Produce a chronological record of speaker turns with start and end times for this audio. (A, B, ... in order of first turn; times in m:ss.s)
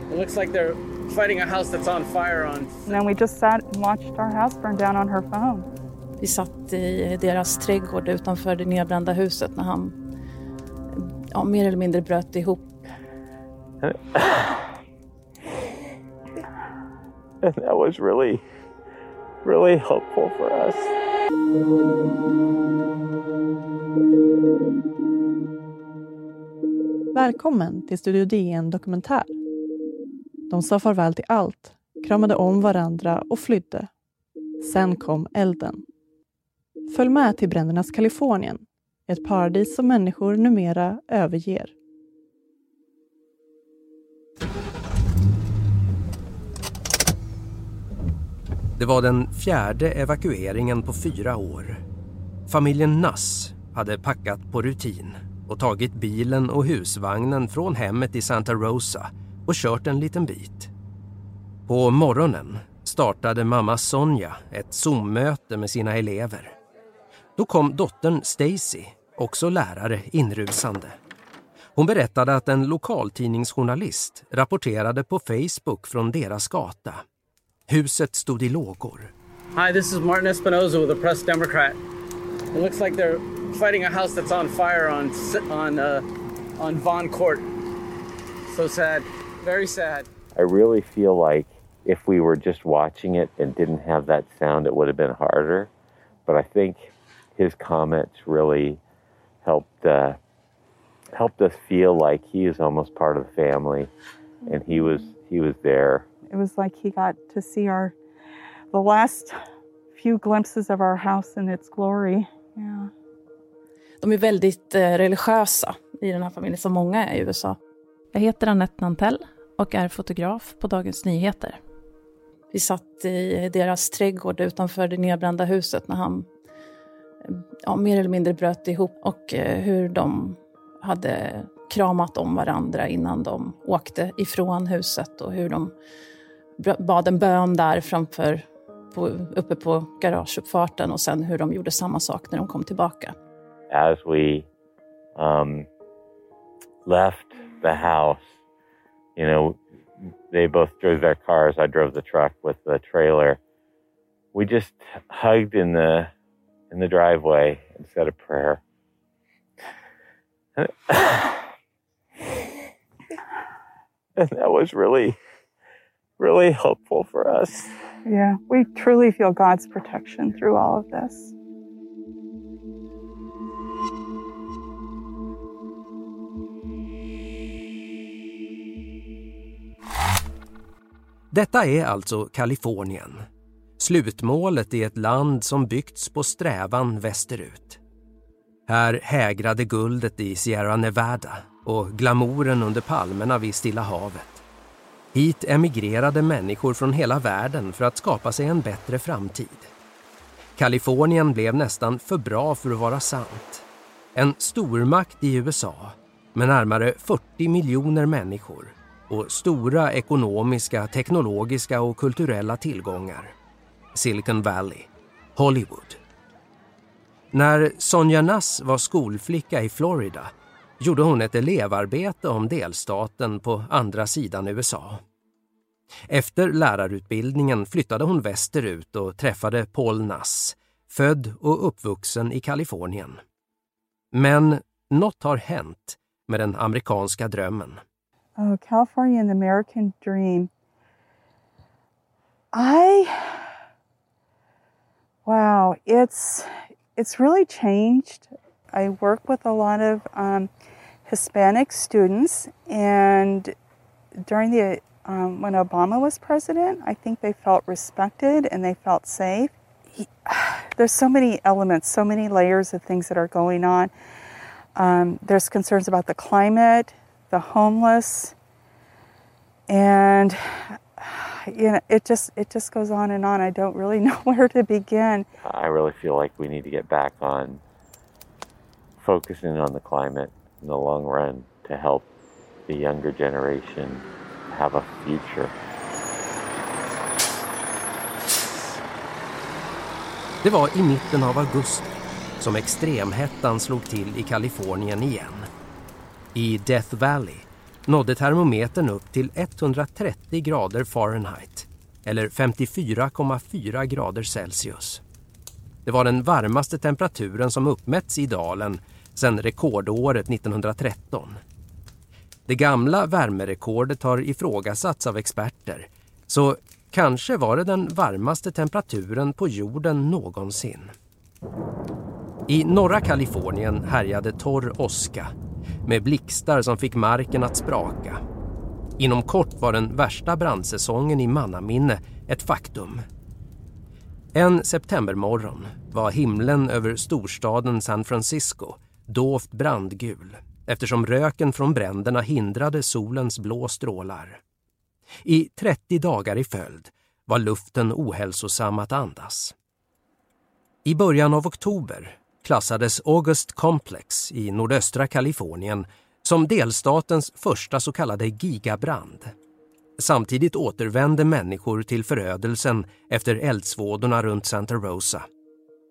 0:00.1-0:03.0 A
0:02.9-0:05.7 B
0:06.2-0:10.0 C
0:11.0-0:12.8 C
0:13.8-0:14.7 D
0:17.4-0:18.4 D
0:19.4-0:21.0 D
0:27.2-0:29.4 E
0:30.5-0:33.9 E
0:34.6-0:35.8 E
0:36.9-0:41.7 E
0:48.8-0:51.8 F
0:52.5-1:00.7 F
1:01.7-1:06.5 F
1:07.4-1:10.9 F
1:11.8-1:17.0 F
1:17.7-1:19.1 F
1:19.6-1:21.8 A
1:22.5-1:26.0 A
1:26.6-1:27.4 A
1:28.5-1:30.1 A
1:30.4-1:35.7 D
1:36.3-1:38.8 D
1:39.4-1:40.2 D
1:41.1-1:43.9 D
1:44.5-1:46.1 D
1:46.3-1:48.0 B
1:48.7-1:49.4 B
1:50.0-1:52.9 B
1:54.0-1:57.6 C
1:58.1-2:01.6 C
2:02.5-2:06.3 C
2:07.3-2:15.7 C
2:16.6-2:23.2 C
2:23.7-2:24.5 D
2:25.2-2:25.7 D
2:26.8-2:28.2 D
2:29.2-2:33.4 D
2:34.3-2:36.1 D
2:36.7-2:38.6 D
2:40.6-2:41.4 D
2:44.2-2:45.2 D
2:46.2-2:47.7 D
2:48.1-2:51.3 B
3:01.3-3:03.2 F
3:03.8-3:07.8 F
3:08.7-3:14.4 F
3:15.1-3:19.7 F
3:20.6-3:33.4 F
3:34.0-3:36.0 F
3:37.3-3:45.0 F
3:46.1-3:53.2 F
3:54.1-3:57.8 F
3:58.4-4:00.5 B
4:02.5-4:03.5 B
4:05.3-4:10.5 B
4:11.1-4:13.6 B
4:14.2-4:23.9 B
4:24.8-4:28.4 B
4:29.7-4:35.3 B
4:35.4-4:37.6 D
4:39.0-4:42.1 D
4:42.7-4:45.5 D
4:50.4-4:55.5 F
4:56.3-5:05.0 F
5:05.9-5:11.4 F
5:12.5-5:20.9 F
5:22.5-5:25.3 F
5:25.9-5:28.2 F
5:29.0-5:33.0 F
5:34.4-5:44.4 F
5:45.2-5:49.6 F
5:50.8-5:59.3 F
6:00.0-6:05.2 F